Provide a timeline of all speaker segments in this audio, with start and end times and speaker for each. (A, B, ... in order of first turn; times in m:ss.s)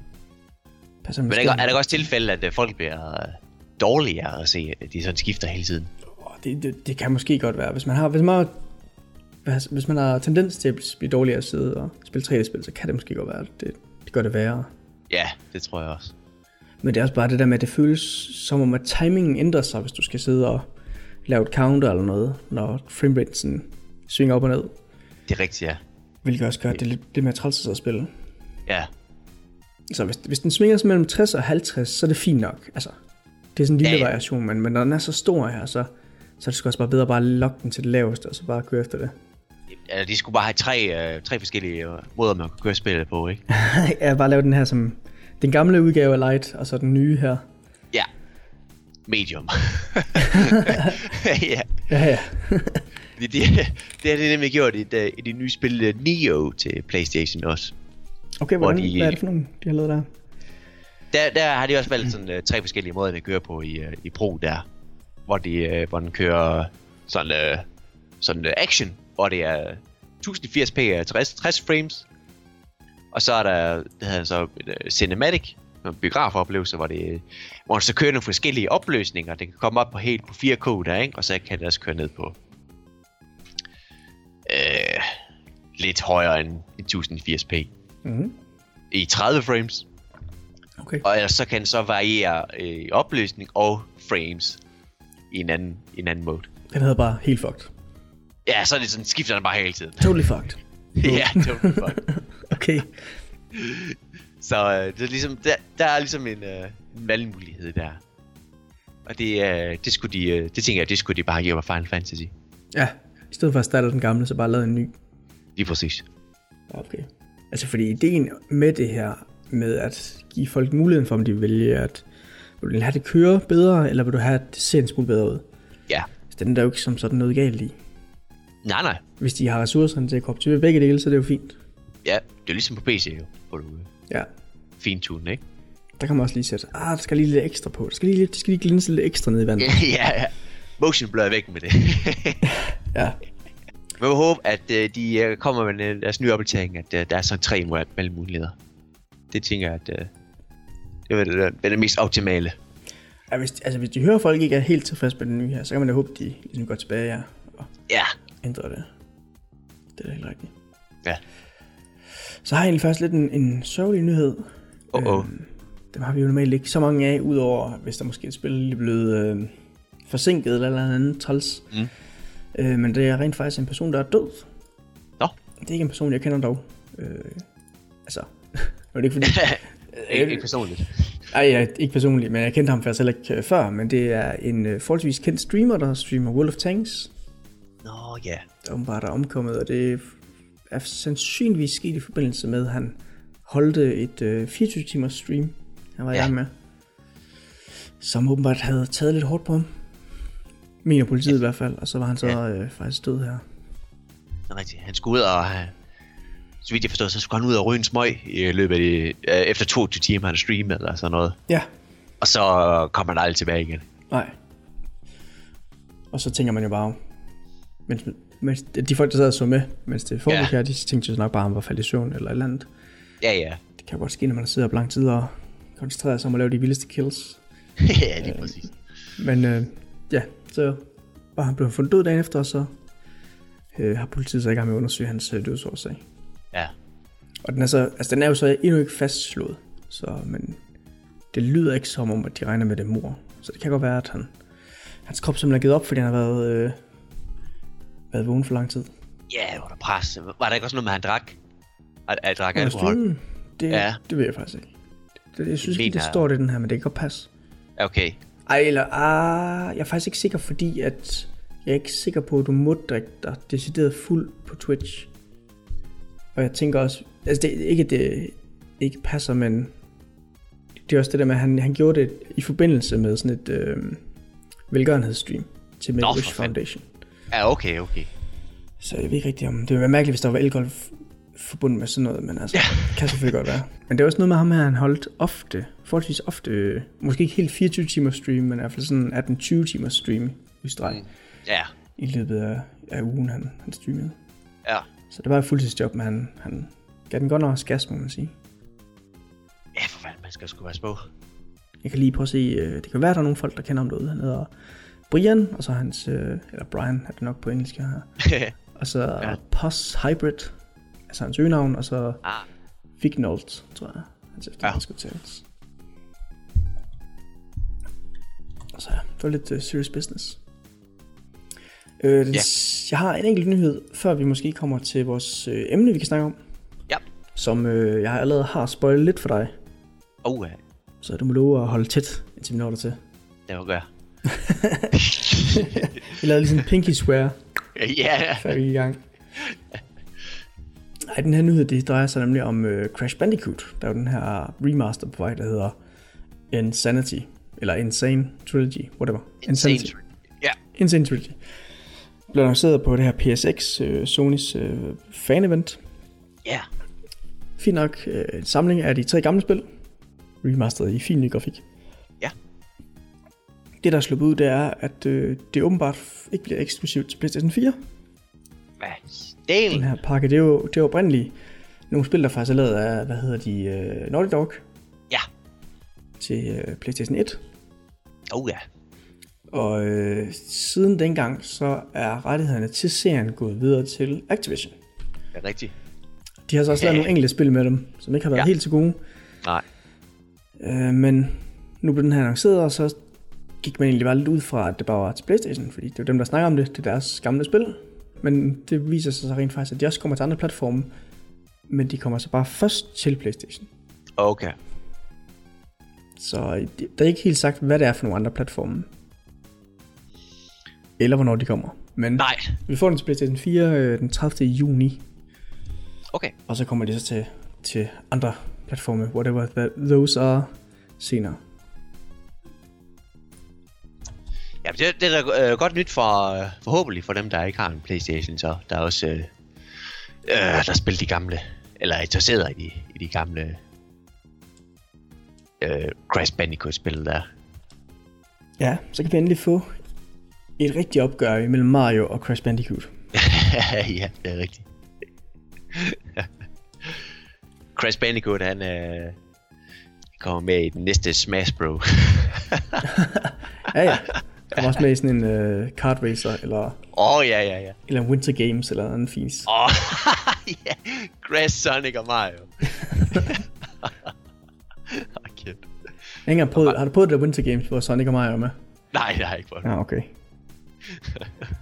0:01.0-0:01.8 A
0:01.3-0:05.9 B
0:06.2-0:08.6 A
0:09.4-0:14.7 A
0:15.1-0:16.1 B
0:16.8-0:20.7 A
0:21.3-0:24.7 A
0:25.3-0:25.8 B
0:26.2-0:28.1 A
0:29.9-0:33.0 A
0:33.6-0:39.2 A
0:33.8-0:34.1 B
0:39.7-0:43.4 B
0:43.5-0:47.5 A
0:49.1-0:51.7 B
0:51.9-0:52.8 A
0:53.2-0:57.8 B
0:58.4-1:00.1 A
0:58.6-0:59.2 B
1:01.1-1:04.6 B
1:05.3-1:07.7 B
1:08.2-1:12.1 B
1:13.1-1:22.4 B
1:24.5-1:25.2 B
1:25.8-1:27.7 B
1:28.0-1:28.4 A
1:28.9-1:29.8 B
1:30.8-1:31.0 A
1:31.0-1:34.6 B
1:35.3-1:36.5 B
1:36.7-1:37.7 A
1:38.5-1:40.2 B
1:40.0-1:43.1 A
1:41.0-1:42.0 B
1:43.5-1:48.0 B
1:49.1-1:52.3 B
1:52.7-1:54.9 A
1:55.6-1:56.1 B
1:56.7-2:02.1 A
2:02.6-2:05.4 A
2:06.3-2:07.8 A
2:08.6-2:09.0 B
2:09.2-2:11.6 A
2:12.0-2:13.9 B
2:14.8-2:15.4 B
2:16.0-2:19.8 A
2:19.6-2:22.5 B
2:22.9-2:23.2 A
2:24.0-2:28.6 B
2:29.3-2:30.1 B
2:31.1-2:32.6 B
2:33.3-2:37.7 A
2:38.4-2:38.9 A
2:40.0-2:40.5 A
2:42.4-2:49.5 A
2:44.9-2:45.3 B
2:50.1-2:51.7 A
2:52.5-2:54.5 A
2:55.6-2:57.5 A
2:58.1-3:00.5 A
2:59.2-3:01.2 B
3:01.3-3:07.1 A
3:07.8-3:08.5 B
3:08.6-3:10.2 A
3:10.7-3:16.5 A
3:18.0-3:19.7 A
3:20.8-3:23.4 A
3:24.5-3:25.7 B
3:26.6-3:31.4 B
3:32.2-3:33.8 B
3:34.1-3:34.4 A
3:36.1-3:37.0 A
3:37.9-3:42.7 A
3:43.2-3:43.6 B
3:43.8-3:47.4 A
3:47.8-3:48.7 B
3:48.2-3:50.8 A
3:51.4-3:52.7 A
3:53.7-3:56.0 A
3:57.4-4:00.6 A
4:01.3-4:04.3 A
4:05.1-4:06.8 A
4:08.1-4:08.9 A
4:09.3-4:11.4 B
4:12.1-4:13.0 B
4:12.6-4:14.7 A
4:13.7-4:14.0 B
4:15.3-4:17.3 A
4:15.6-4:16.2 B
4:17.8-4:18.2 B
4:18.5-4:25.1 A
4:26.4-4:29.7 A
4:30.9-4:34.0 A
4:34.7-4:36.9 A
4:36.0-4:36.5 B
4:37.3-4:38.1 B
4:38.8-4:51.0 A
4:42.5-4:43.3 B
4:50.9-4:51.7 B
4:52.0-4:54.2 A
4:55.1-4:58.3 A
4:59.8-5:01.1 B
5:01.8-5:04.5 A
5:05.1-5:08.1 A
5:08.2-5:08.5 B
5:08.7-5:10.5 A
5:11.1-5:12.2 A
5:13.0-5:15.4 A
5:18.7-5:20.4 A
5:22.0-5:26.4 A
5:27.4-5:29.5 A
5:30.2-5:30.6 B
5:31.0-5:33.0 A
5:33.5-5:33.9 B
5:34.2-5:37.4 A
5:34.9-5:36.6 B
5:37.8-5:38.5 B
5:38.4-5:39.0 A
5:41.1-5:45.8 A
5:46.5-5:49.9 A
5:49.4-5:50.6 B
5:50.7-5:51.4 A
5:52.3-5:55.8 A
5:57.6-5:59.6 A
6:00.4-6:01.6 A
6:03.8-6:07.8 A
6:08.8-6:09.9 B
6:09.7-6:11.4 A
6:11.9-6:14.6 A
6:16.2-6:17.4 A
6:18.3-6:18.6 B
6:19.5-6:24.8 A
6:25.3-6:25.7 B
6:26.5-6:29.0 A
6:26.8-6:27.1 B
6:30.6-6:33.0 A
6:33.6-6:40.9 A
6:41.7-6:43.7 A
6:44.2-6:44.6 B
6:46.2-6:48.9 A
6:51.0-6:55.0 A
6:52.2-6:52.6 B
6:56.5-7:01.4 A
7:04.6-7:09.3 B
7:10.2-7:13.6 B
7:15.6-7:17.3 B
7:18.6-7:19.7 A
7:20.6-7:22.9 A
7:23.1-7:24.7 B
7:25.7-7:26.3 B
7:27.8-7:29.2 B
7:30.2-7:32.9 B
7:32.9-7:36.8 A
7:36.9-7:37.8 B
7:37.9-7:39.5 A
7:39.5-7:44.1 B
7:44.9-7:45.7 B
7:46.3-7:48.6 A
7:48.9-7:49.7 B
7:49.6-7:50.1 A
7:50.9-7:51.3 B